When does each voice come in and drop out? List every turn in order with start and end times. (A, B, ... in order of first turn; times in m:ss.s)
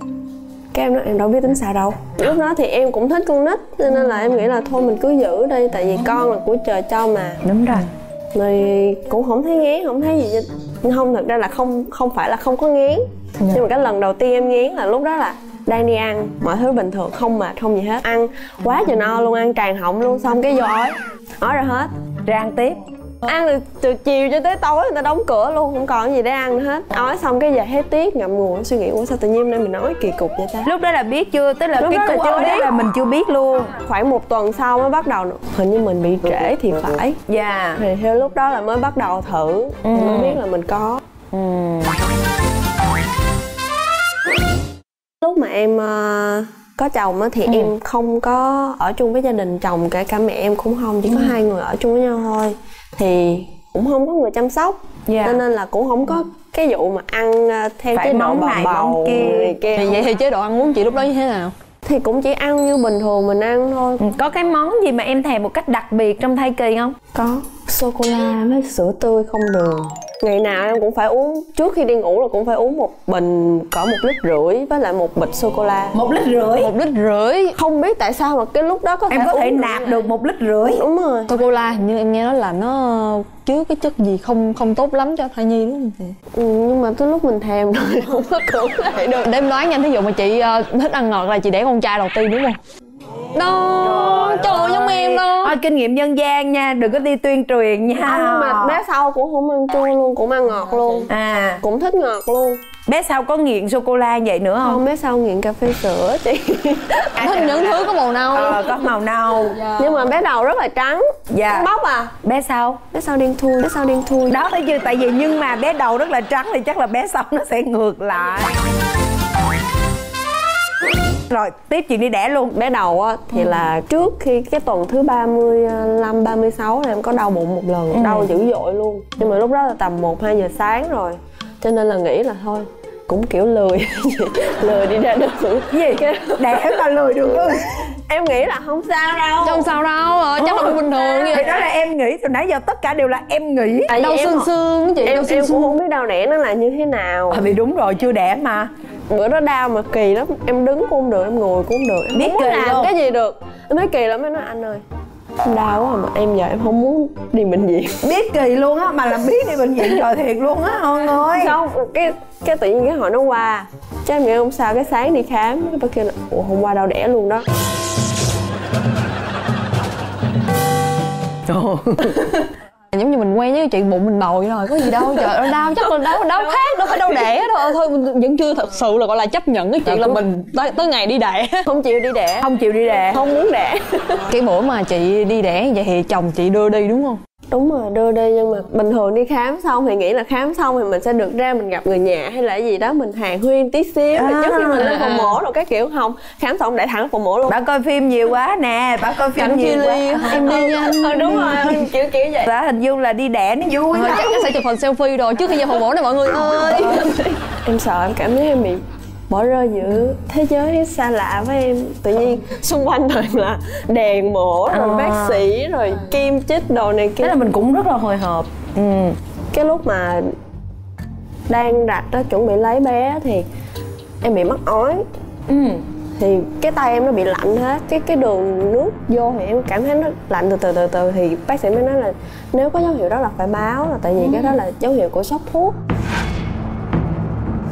0:00.7-0:07.4 A
0:07.4-0:07.9 B
0:08.3-0:21.9 A
0:22.2-0:22.8 B
0:23.2-0:30.7 A
0:30.6-0:33.7 B
0:31.8-0:32.8 A
0:33.7-0:37.2 A
0:37.3-0:37.8 B
0:37.8-0:41.0 A
0:39.8-0:40.4 B
0:41.3-0:42.0 B
0:45.2-1:00.1 A
0:47.4-0:47.7 B
0:51.0-0:51.4 B
0:55.1-0:55.4 B
0:57.9-0:59.6 B
0:59.7-1:01.5 C
1:01.8-1:04.0 A
1:04.0-1:06.9 B
1:07.1-1:15.9 A
1:15.9-1:16.7 B
1:16.6-1:17.5 C
1:17.5-1:20.1 A
1:19.1-1:20.8 B
1:20.7-1:21.4 A
1:21.3-1:26.1 C
1:26.3-1:29.3 A
1:29.2-1:32.6 C
1:33.3-1:35.6 C
1:33.8-1:38.8 B
1:38.0-1:42.6 A
1:41.1-1:41.6 B
1:42.8-1:44.8 B
1:44.6-1:47.4 A
1:47.2-1:49.6 B
1:47.2-1:50.1 C
1:49.7-1:52.1 A
1:51.3-1:51.7 B
1:52.2-1:52.8 B
1:52.9-1:54.4 A
1:54.3-1:58.6 B
2:01.3-2:02.5 B
2:02.5-2:16.9 A
2:07.9-2:08.3 B
2:15.7-2:17.9 B
2:17.9-2:19.7 A
2:19.4-2:21.6 C
2:20.4-2:23.9 B
2:20.6-2:21.7 A
2:23.9-2:24.5 A
2:24.0-2:25.7 C
2:25.0-2:27.4 A
2:27.3-2:28.7 B
2:29.1-2:34.8 A
2:32.1-2:32.9 B
2:35.4-2:38.0 A
2:38.0-2:41.6 B
2:41.0-2:47.4 A
2:51.5-2:52.4 B
2:52.9-3:01.6 C
2:56.5-2:57.2 B
2:59.8-3:00.2 B
3:01.6-3:02.5 A
3:02.4-3:03.2 B
3:03.1-3:04.2 A
3:04.3-3:07.2 C
3:07.5-3:17.6 A
3:14.1-3:14.9 B
3:14.7-3:15.4 C
3:17.5-3:21.4 B
3:19.1-3:22.5 C
3:20.2-3:21.9 A
3:22.4-3:24.5 B
3:23.9-3:27.1 C
3:26.3-3:27.1 B
3:27.4-3:37.5 A
3:34.7-3:35.5 B
3:37.2-3:39.2 B
3:39.5-3:40.3 A
3:41.5-3:43.4 A
3:44.2-3:45.0 A
3:45.5-3:45.8 B
3:46.2-3:55.8 A
3:54.2-3:54.6 B